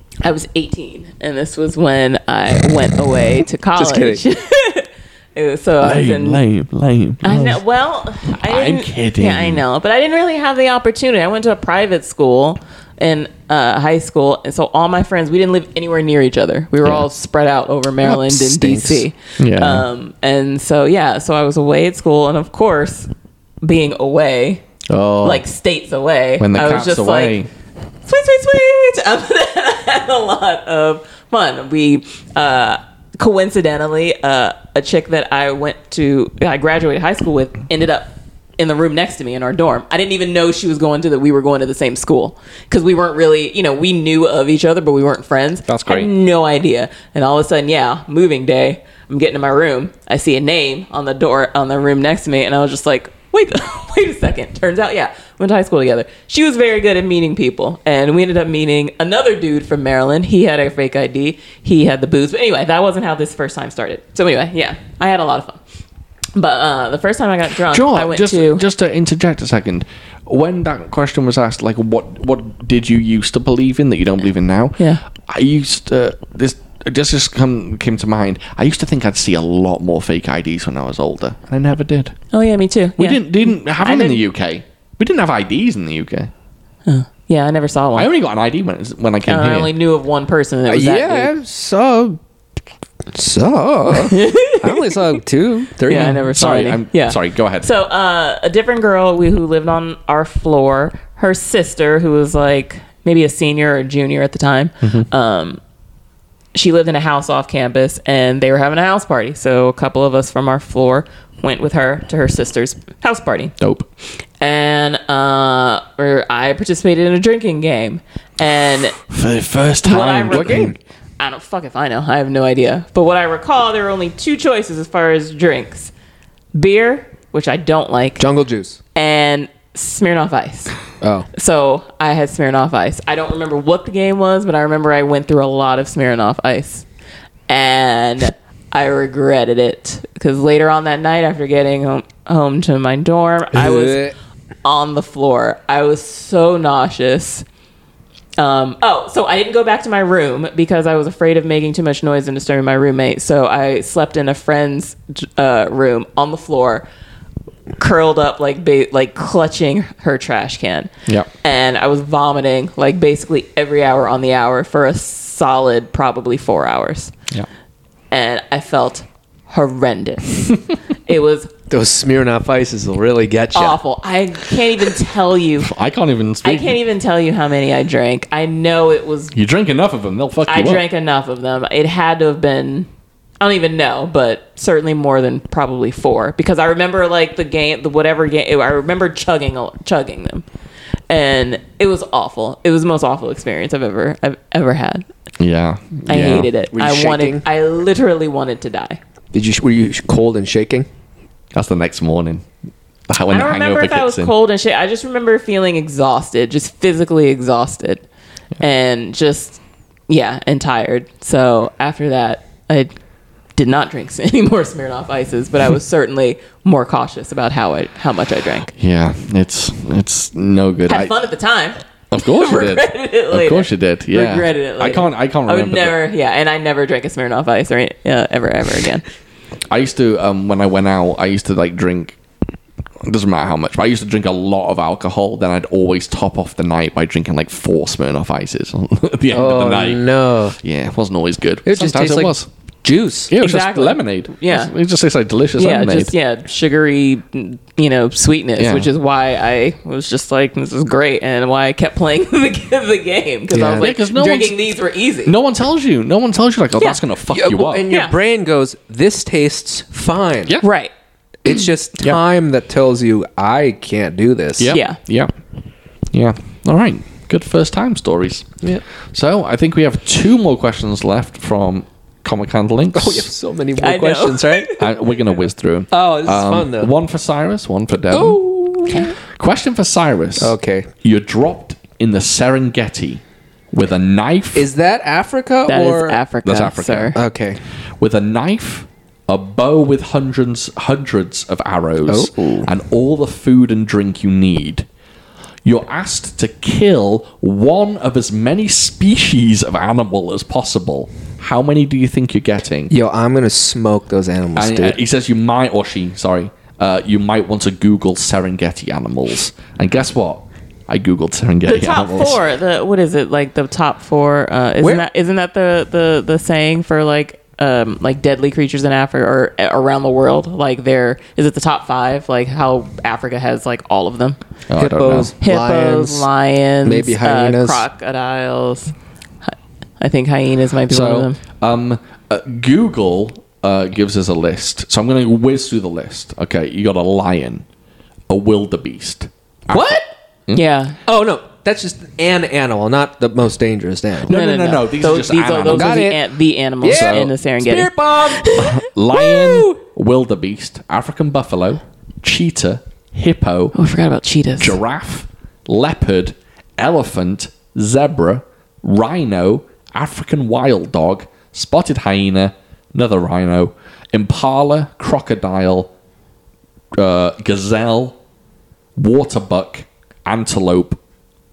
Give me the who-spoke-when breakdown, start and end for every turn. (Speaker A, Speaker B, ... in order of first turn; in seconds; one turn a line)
Speaker A: 0.2-6.4
Speaker B: 3.8-4.2
Speaker C: 5.8-7.5
Speaker A: 7.2-23.1
Speaker C: 8.3-9.6
Speaker B: 18.0-19.1
Speaker C: 19.4-19.9
Speaker A: 23.6-24.6
Speaker C: 24.9-25.4
Speaker A: 25.2-27.4
Speaker C: 26.4-27.5
Speaker A: 28.0-65.6
Speaker C: 45.7-46.1
Speaker A: 66.3-68.6
Speaker C: 67.7-82.1
Speaker A: 82.3-84.2
Speaker C: 83.0-86.3
Speaker A: 86.8-88.1
Speaker C: 87.9-89.7
Speaker A: 89.3-91.3
Speaker B: 90.7-92.2
Speaker B: 93.1-96.2
Speaker A: 94.1-95.1
Speaker A: 95.8-105.6
Speaker C: 95.9-97.7
Speaker C: 104.8-105.1
Speaker A: 106.5-113.5
Speaker C: 113.6-113.9
Speaker A: 114.4-119.0
Speaker C: 119.1-120.8
Speaker A: 119.8-125.9
Speaker A: 126.5-128.2
Speaker B: 128.2-128.8
Speaker A: 128.9-130.8
Speaker B: 131.0-131.3
Speaker A: 131.3-136.8
Speaker A: 137.5-144.0
Speaker B: 143.5-144.1
Speaker A: 144.6-147.4
Speaker A: 148.4-156.8
Speaker A: 157.8-160.9
Speaker A: 161.4-167.1
Speaker A: 168.1-171.5
Speaker B: 171.7-173.8
Speaker A: 173.5-175.7
Speaker C: 175.6-176.8
Speaker A: 176.4-179.3
Speaker C: 179.3-180.8
Speaker A: 180.5-182.9
Speaker A: 183.4-190.4
Speaker A: 191.1-195.1
Speaker C: 195.4-196.5
Speaker A: 196.1-199.0
Speaker B: 196.7-197.4
Speaker B: 199.3-200.9
Speaker C: 201.5-202.4
Speaker C: 203.1-204.3
Speaker A: 203.3-208.0
Speaker A: 208.6-212.9
Speaker A: 213.5-218.7
Speaker C: 218.8-221.1
Speaker A: 220.9-229.0
Speaker C: 222.1-226.0
Speaker C: 229.7-232.2
Speaker C: 233.0-240.0
Speaker B: 239.3-240.6
Speaker C: 240.6-242.4
Speaker B: 241.6-243.3
Speaker C: 243.3-246.1
Speaker A: 243.4-244.7
Speaker A: 245.6-255.3
Speaker C: 248.6-248.9
Speaker B: 253.5-253.9
Speaker C: 253.8-254.6
Speaker C: 255.2-257.9
Speaker B: 257.3-260.6
Speaker A: 260.6-260.9
Speaker B: 261.4-264.7
Speaker C: 264.6-265.3
Speaker A: 264.7-265.0
Speaker C: 266.1-268.5
Speaker C: 269.1-273.3
Speaker B: 272.9-274.7
Speaker A: 273.8-275.3
Speaker C: 274.8-278.4
Speaker B: 275.9-276.9
Speaker B: 278.1-279.1
Speaker C: 279.4-284.7
Speaker B: 280.4-280.9
Speaker B: 284.5-286.2
Speaker A: 285.7-287.2
Speaker C: 286.4-287.2
Speaker B: 287.1-287.6
Speaker C: 288.0-294.9
Speaker B: 292.1-292.7
Speaker C: 295.6-302.9
Speaker B: 302.9-305.0
Speaker C: 304.6-312.4
Speaker A: 311.6-324.4
Speaker C: 324.7-325.3
Speaker B: 324.7-326.3
Speaker A: 325.4-328.9
Speaker B: 326.8-327.8
Speaker A: 330.0-331.4
Speaker C: 330.9-337.6
Speaker C: 338.3-340.6
Speaker B: 339.7-340.1
Speaker A: 340.5-341.0
Speaker B: 341.1-344.3
Speaker C: 344.2-346.1
Speaker A: 344.3-349.6
Speaker B: 345.7-346.2
Speaker B: 346.8-348.7
Speaker C: 346.8-347.3
Speaker C: 348.5-353.7
Speaker A: 353.7-354.8
Speaker C: 354.6-365.9
Speaker C: 367.0-368.2
Speaker C: 368.9-371.0